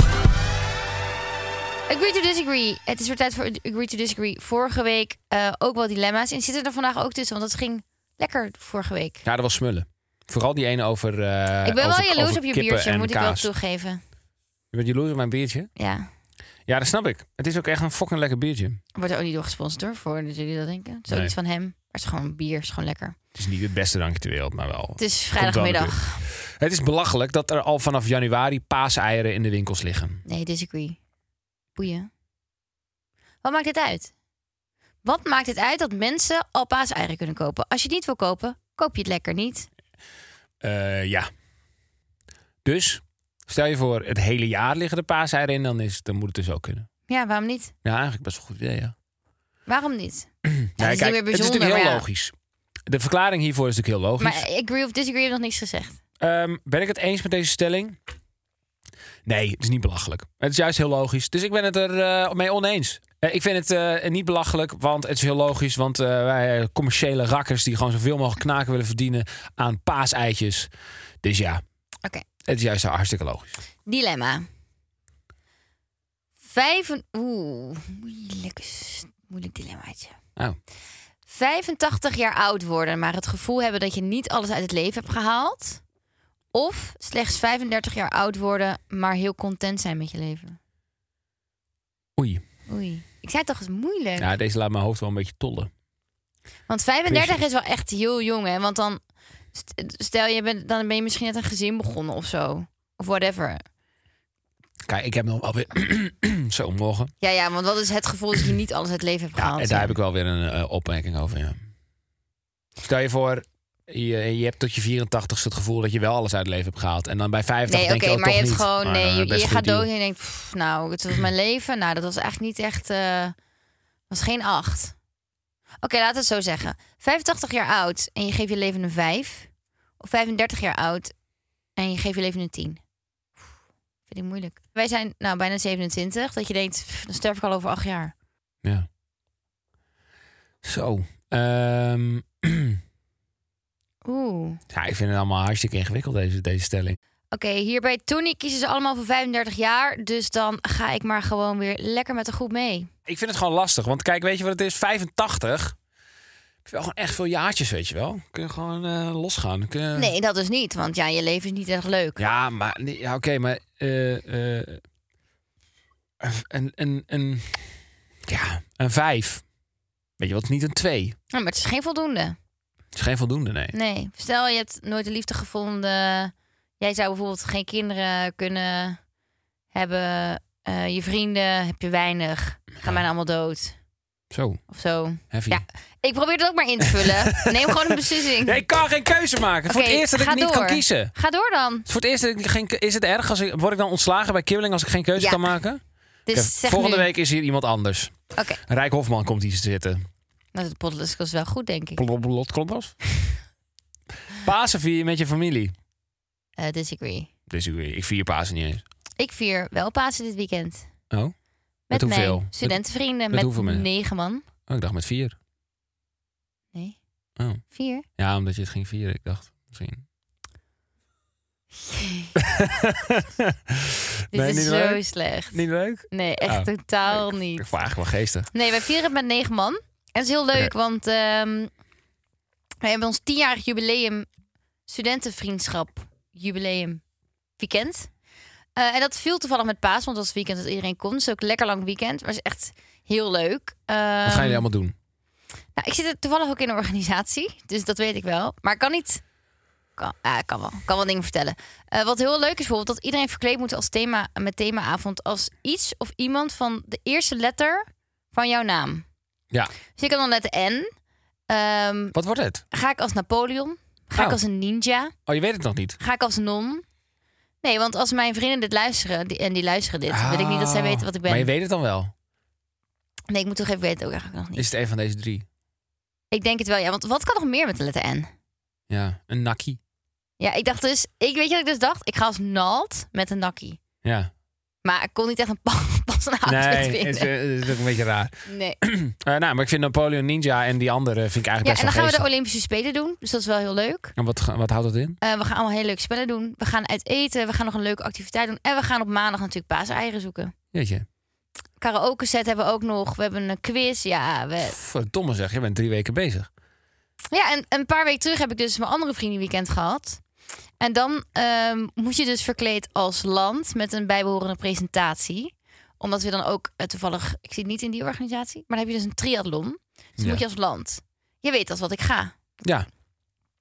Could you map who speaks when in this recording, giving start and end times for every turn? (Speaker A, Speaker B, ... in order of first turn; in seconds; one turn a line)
Speaker A: 1.9-9.2
Speaker B: 9.2-13.5
Speaker A: 11.6-14.0
Speaker B: 14.7-15.7
Speaker A: 15.8-16.1
Speaker B: 16.7-18.8
Speaker A: 18.9-23.2
Speaker B: 21.1-21.3
Speaker B: 23.3-30.2
Speaker A: 25.0-26.2
Speaker A: 30.2-31.0
Speaker A: 31.8-32.1
Speaker A: 33.4-34.1
Speaker A: 35.0-39.7
Speaker B: 40.6-41.3
Speaker B: 42.6-46.9
Speaker A: 47.1-47.7
Speaker B: 47.8-48.9
Speaker A: 49.6-52.0
Speaker B: 50.5-52.3
Speaker B: 52.9-54.5
Speaker A: 54.2-56.0
Speaker B: 56.2-58.0
Speaker B: 59.2-70.7
Speaker B: 71.2-71.6
Speaker B: 72.4-73.5
Speaker A: 73.8-74.5
Speaker A: 76.4-80.1
Speaker A: 81.2-85.8
Speaker A: 86.5-90.6
Speaker B: 92.2-92.4
Speaker A: 92.7-94.3
Speaker B: 94.2-95.7
Speaker A: 96.7-99.0
Speaker B: 97.0-97.4
Speaker A: 99.5-103.6
Speaker B: 104.8-107.1
Speaker A: 107.2-110.0
Speaker B: 109.3-111.6
Speaker B: 112.8-119.9
Speaker A: 117.7-123.3
Speaker A: 124.1-124.9
Speaker A: 125.8-131.1
Speaker A: 131.8-132.8
Speaker A: 134.1-138.1
Speaker B: 140.6-142.8
Speaker A: 144.0-144.6
Speaker B: 144.7-147.0
Speaker A: 147.3-152.9
Speaker B: 153.1-155.8
Speaker B: 156.6-160.1
Speaker A: 159.9-162.2
Speaker B: 162.2-164.8
Speaker B: 166.2-167.7
Speaker B: 168.2-169.4
Speaker B: 170.2-171.2
Speaker A: 171.3-172.4
Speaker B: 172.9-173.7
Speaker A: 173.7-179.0
Speaker A: 179.7-183.7
Speaker B: 184.3-184.6
Speaker A: 184.7-188.6
Speaker B: 185.3-185.6
Speaker B: 186.9-191.1
Speaker A: 189.7-191.8
Speaker B: 191.9-195.8
Speaker A: 195.2-195.4
Speaker A: 196.2-197.1
Speaker B: 196.3-200.0
Speaker A: 198.3-198.6
Speaker A: 200.5-202.0
Speaker B: 202.0-202.9
Speaker B: 204.3-205.7
Speaker A: 206.6-207.3
Speaker B: 207.5-208.8
Speaker A: 209.2-210.9
Speaker A: 211.9-214.4
Speaker B: 211.9-212.8
Speaker B: 213.3-213.9
Speaker B: 214.7-215.3
Speaker A: 217.7-218.1
Speaker B: 218.2-220.0
Speaker A: 221.8-222.3
Speaker B: 222.3-228.5
Speaker A: 224.3-227.7
Speaker A: 228.5-231.7
Speaker A: 232.8-234.3
Speaker A: 234.9-237.0
Speaker A: 237.6-238.1
Speaker A: 238.8-244.6
Speaker B: 244.2-244.9
Speaker A: 245.8-249.2
Speaker A: 250.0-259.0
Speaker A: 259.9-260.9
Speaker A: 261.5-262.1
Speaker B: 262.1-262.6
Speaker A: 262.7-265.1
Speaker B: 265.3-266.0
Speaker A: 266.0-266.8
Speaker A: 267.6-271.5
Speaker B: 270.1-272.1
Speaker A: 273.3-274.7
Speaker B: 274.6-275.4
Speaker A: 276.3-278.3
Speaker B: 278.9-279.8
Speaker A: 280.4-283.8
Speaker B: 284.0-284.3
Speaker A: 284.8-287.3
Speaker B: 286.4-292.2
Speaker A: 288.5-288.8
Speaker A: 291.6-294.1
Speaker B: 294.2-295.2
Speaker A: 295.2-300.5
Speaker B: 300.7-301.0
Speaker A: 301.8-304.8
Speaker B: 304.6-306.5
Speaker A: 307.3-310.2
Speaker A: 310.8-322.3